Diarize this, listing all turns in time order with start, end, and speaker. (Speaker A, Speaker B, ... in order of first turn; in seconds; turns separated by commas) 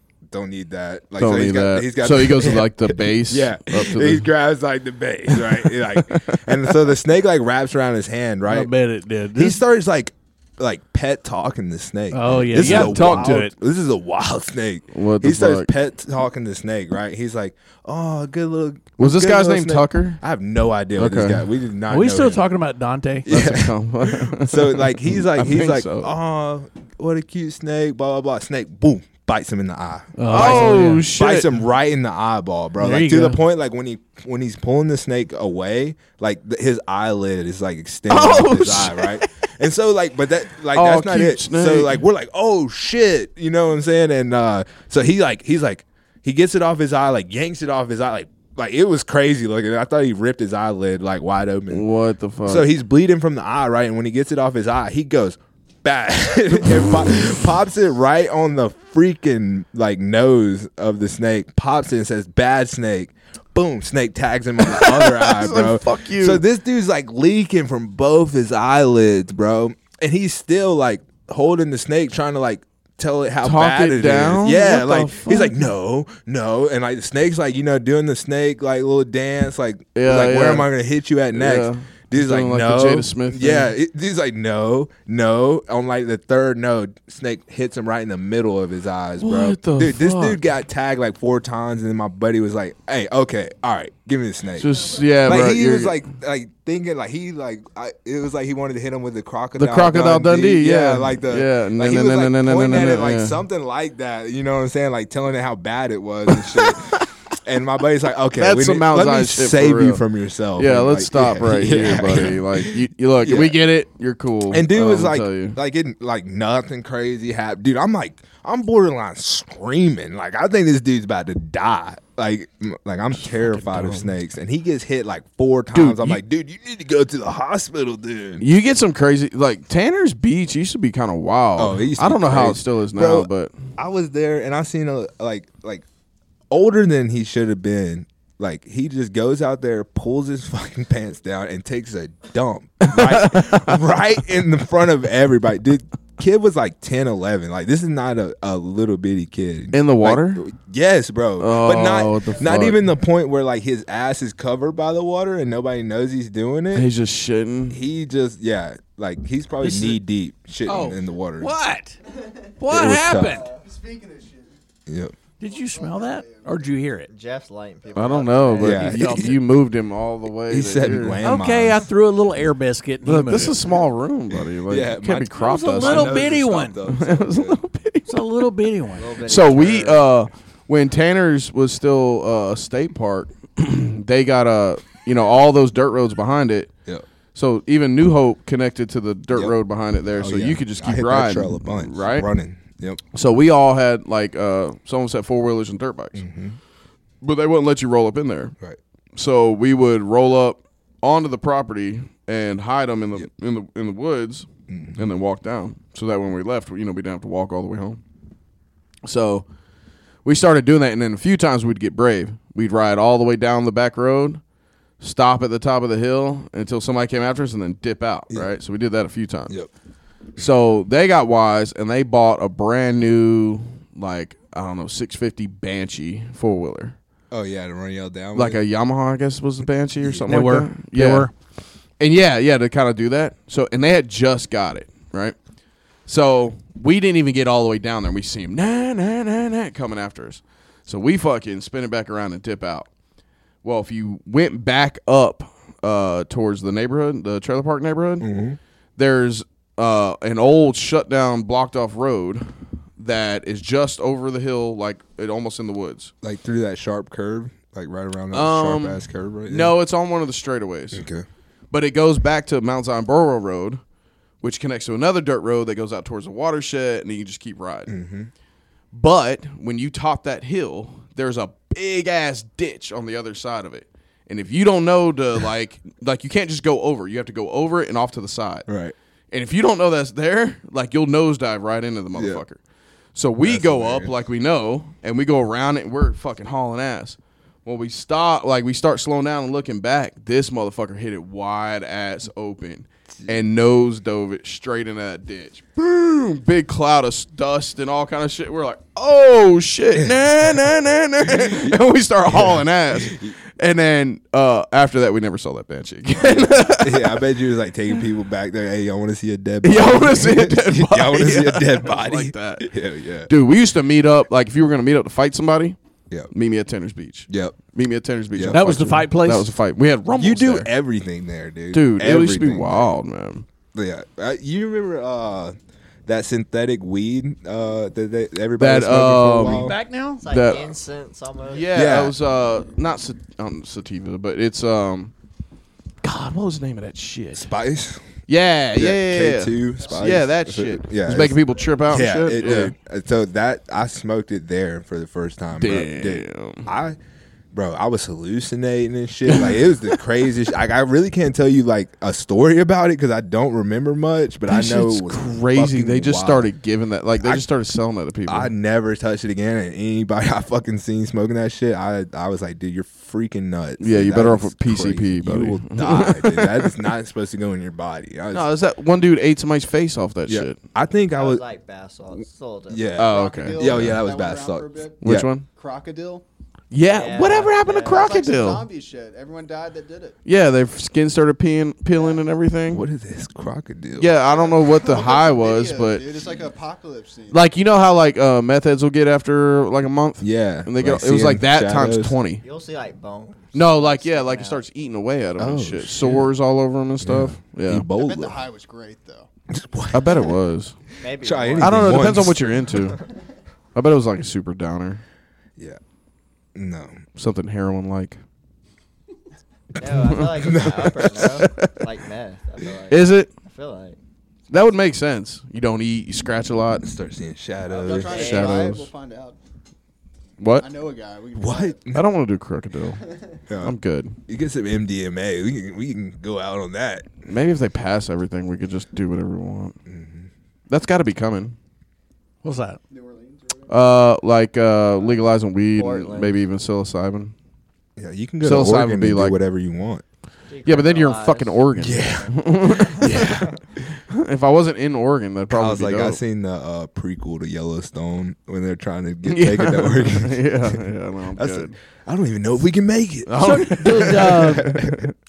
Speaker A: 0.3-8.7, Speaker B: 1.2-4.3, Speaker B: 5.3-6.7, Speaker C: 8.5-9.6, Speaker A: 9.3-22.4, Speaker C: 12.1-13.5, Speaker B: 12.6-13.5, Speaker B: 14.9-15.7, Speaker B: 19.0-20.2, Speaker B: 21.0-21.5, Speaker C: 21.9-23.3, Speaker A: 23.3-51.9, Speaker B: 23.3-26.1, Speaker C: 30.2-31.1, Speaker B: 30.3-31.5, Speaker C: 32.8-33.4, Speaker B: 38.1-39.3, Speaker B: 40.7-42.0, Speaker B: 51.7-52.7, Speaker A: 52.5-113.6, Speaker B: 64.6-66.4, Speaker B: 73.4-75.6, Speaker B: 80.0-80.7, Speaker B: 81.3-83.7, Speaker B: 89.2-90.4, Speaker B: 94.6-96.0, Speaker B: 99.6-103.4, Speaker B: 106.4-107.1, Speaker B: 108.4-110.0, Speaker B: 110.6-115.6, Speaker A: 114.5-128.4, Speaker B: 123.2-124.1, Speaker B: 125.7-126.2, Speaker B: 128.4-133.5, Speaker A: 131.6-135.8, Speaker A: 136.5-156.9, Speaker B: 142.8-143.8, Speaker B: 149.7-150.4, Speaker B: 151.4-152.9, Speaker B: 156.7-157.8, Speaker A: 157.7-161.5, Speaker C: 159.6-160.0, Speaker C: 160.7-162.0, Speaker C: 162.6-163.5, Speaker A: 162.7-163.4, Speaker D: 163.1-164.6, Speaker A: 164.9-165.1, Speaker D: 165.4-166.7, Speaker C: 165.4-167.1, Speaker E: 167.1-169.1, Speaker B: 167.9-171.2, Speaker A: 168.6-169.4, Speaker C: 168.8-169.4, Speaker A: 170.5-171.8, Speaker C: 171.2-173.6, Speaker B: 173.1-176.3, Speaker A: 174.3-177.6, Speaker C: 175.3-176.8, Speaker B: 176.9-178.2, Speaker C: 178.1-179.1, Speaker E: 179.0-180.0, Speaker B: 179.2-186.7, Speaker B: 187.3-192.3, Speaker A: 190.2-193.0, Speaker B: 193.1-196.2, Speaker A: 196.2-196.6, Speaker B: 197.2-198.5, Speaker B: 199.2-208.0, Speaker A: 204.7-205.1, Speaker B: 209.0-209.5, Speaker B: 210.2-214.4, Speaker B: 215.0-219.6, Speaker B: 220.4-226.9, Speaker A: 227.3-228.6, Speaker B: 228.3-231.3, Speaker A: 230.0-230.3, Speaker C: 230.3-231.3, Speaker B: 232.0-235.4, Speaker B: 236.1-242.9, Speaker B: 243.6-248.3, Speaker A: 248.2-248.6, Speaker B: 249.0-256.1, Speaker A: 256.2-259.8, Speaker B: 258.3-261.1, Speaker A: 260.9-261.2, Speaker B: 261.7-263.8, Speaker B: 264.4-267.9, Speaker A: 267.9-268.3, Speaker B: 268.9-278.7, Speaker A: 278.7-278.9, Speaker B: 279.3-282.6, Speaker A: 282.1-282.4, Speaker B: 283.1-307.2, Speaker A: 283.4-284.1, Speaker A: 300.0-300.6, Speaker A: 301.3-303.4, Speaker A: 306.1-313.3, Speaker B: 309.6-312.7, Speaker B: 313.3-315.8, Speaker B: 316.3-320.7, Speaker A: 317.3-317.6, Speaker A: 318.3-318.6, Speaker C: 318.5-319.5, Speaker A: 320.1-322.9, Speaker B: 321.7-323.5, Speaker A: 323.7-325.6, Speaker A: 326.1-329.8, Speaker B: 328.6-329.7, Speaker C: 329.5-330.2, Speaker E: 330.2-331.7, Speaker B: 330.3-330.8, Speaker B: 331.5-335.1, Speaker A: 331.7-332.1, Speaker B: 336.0-337.5, Speaker A: 337.3-338.1, Speaker B: 338.3-342.7, Speaker A: 338.8-347.0, Speaker B: 345.6-346.7, Speaker A: 347.5-356.5, Speaker B: 354.5-358.5, Speaker A: 357.2-357.4, Speaker A: 358.3-368.5, Speaker B: 363.8-366.8, Speaker B: 368.3-370.6, Speaker A: 370.3-371.4, Speaker E: 371.1-373.5, Speaker A: 372.7-375.3, Speaker B: 373.0-374.0, Speaker D: 373.0-376.2, Speaker B: 375.0-375.5, Speaker B: 376.7-378.6, Speaker E: 376.9-378.2, Speaker D: 377.9-380.2, Speaker B: 380.2-382.8, Speaker D: 381.9-382.3, Speaker A: 382.7-384.2, Speaker B: 384.0-386.2, Speaker D: 384.2-387.4, Speaker B: 387.3-392.4, Speaker A: 390.2-392.2, Speaker E: 392.4-394.6, Speaker B: 393.5-397.9, Speaker A: 395.4-396.3, Speaker A: 397.0-398.4, Speaker D: 397.9-399.3, Speaker A: 399.5-400.3, Speaker B: 399.9-400.8, Speaker E: 401.0-402.4, Speaker A: 401.2-402.5, Speaker B: 401.6-403.0, Speaker B: 403.8-405.0, Speaker A: 406.6-407.1, Speaker B: 407.2-408.2, Speaker E: 409.8-414.0, Speaker B: 409.9-411.8, Speaker A: 410.4-411.5, Speaker B: 412.9-413.3, Speaker B: 414.5-416.9, Speaker A: 416.8-418.5, Speaker D: 417.7-419.4, Speaker E: 417.9-418.7, Speaker B: 418.1-418.9, Speaker B: 420.4-420.7, Speaker D: 420.6-421.8, Speaker A: 421.4-422.0, Speaker B: 421.9-423.0, Speaker A: 423.5-423.8, Speaker B: 423.6-424.2, Speaker A: 424.3-427.2, Speaker B: 427.3-429.8, Speaker A: 429.9-430.3, Speaker B: 430.7-431.6, Speaker C: 432.4-432.8, Speaker D: 432.9-434.0, Speaker B: 433.7-437.3, Speaker E: 435.7-436.4, Speaker A: 438.0-440.0, Speaker B: 438.4-439.4, Speaker E: 440.5-441.7, Speaker B: 440.6-446.2, Speaker A: 441.8-443.8, Speaker A: 445.5-450.8, Speaker B: 449.3-451.8, Speaker A: 451.4-455.0, Speaker B: 453.3-455.1, Speaker C: 453.4-454.8